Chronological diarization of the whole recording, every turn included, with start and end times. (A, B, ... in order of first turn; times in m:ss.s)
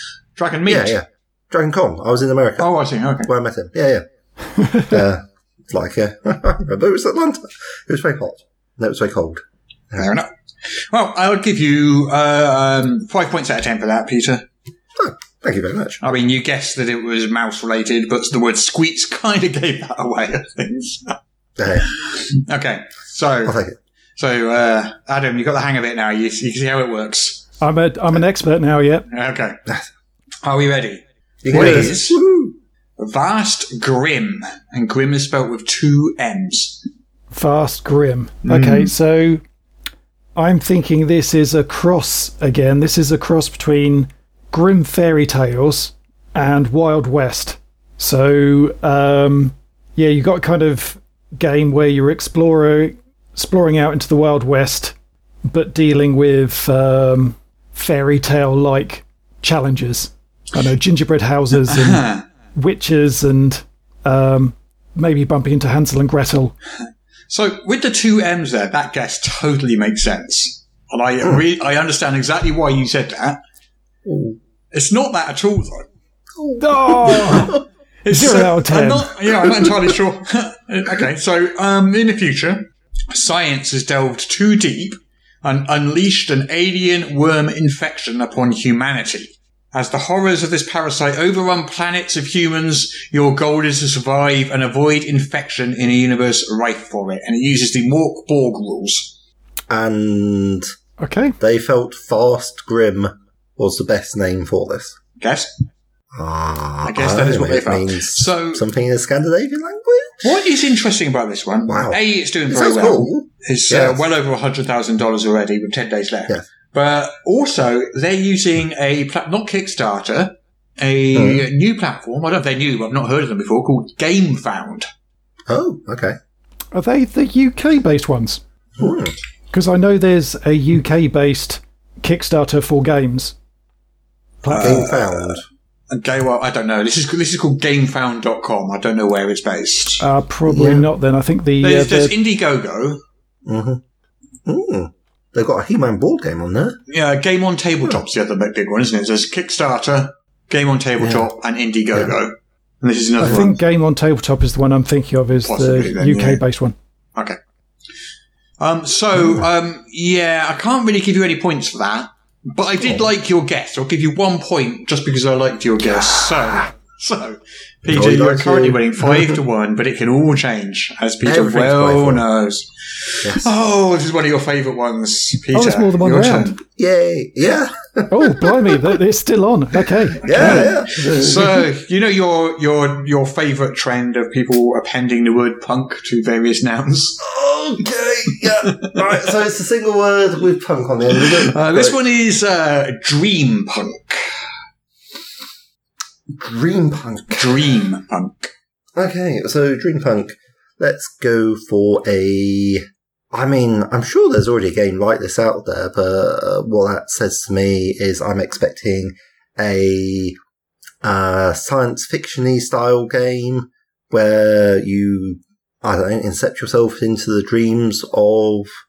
0:00.4-0:00.9 A
0:00.6-0:04.0 B
0:02.6-0:03.3 A
0:04.6-0:04.9 C
0:04.7-0:10.1 B
0:10.0-0:10.3 A
0:10.8-0:14.4 A
0:15.0-0:16.0 B
0:16.0-0:21.2 A
0:21.6-0:21.8 B
0:21.8-0:23.6 A
0:23.4-0:23.8 B
0:24.2-0:27.4 A
0:27.6-0:29.0 C
0:29.1-0:29.6 A
0:30.4-0:32.2 A
0:31.4-0:32.6 B
0:33.0-0:36.8 A
0:37.3-0:39.4 C
0:38.4-0:38.9 A
0:40.4-0:54.9 C
0:55.5-1:06.5 C
1:01.7-1:02.2 A
1:07.3-1:13.4 A
1:14.0-1:14.4 B
1:14.7-1:15.9 A
1:16.3-1:17.6 B
1:16.6-1:17.5 C
1:17.1-1:39.1 A
1:18.1-1:19.1 C
1:19.4-1:19.9 B
1:39.7-1:40.7 B
1:41.0-1:41.4 C
1:41.4-1:45.0 B
1:45.2-1:45.5 A
1:46.1-1:50.3 B
1:46.8-1:48.6 A
1:50.2-2:04.9 A
1:51.7-1:54.0 B
2:01.1-2:01.4 B
2:05.5-2:06.2 B
2:06.7-2:08.4 C
2:08.8-2:09.1 B
2:09.5-2:13.3 C
2:14.4-2:14.8 C
2:14.5-2:20.0 A
2:14.5-2:15.4 B
2:20.0-2:22.1 C
2:20.5-2:20.9 B
2:21.6-2:23.0 A
2:23.5-2:23.8 B
2:24.4-2:26.8 B
2:26.9-2:33.6 A
2:31.0-2:31.3 B
2:33.2-2:36.8 C
2:35.4-2:36.4 A
2:38.6-2:56.6 A
2:39.2-2:39.4 B
2:47.9-2:49.4 B
2:51.2-2:52.2 B
2:53.2-2:53.5 B
2:55.5-2:56.5 C
2:56.7-2:58.9 B
2:58.1-3:00.7 C
3:00.2-3:01.7 B
3:00.3-3:07.2 A
3:07.2-3:12.0 B
3:08.6-3:09.0 A
3:11.2-3:14.2 A
3:16.3-3:17.6 B
3:17.3-3:18.5 A
3:19.0-3:30.4 B
3:31.0-3:38.7 B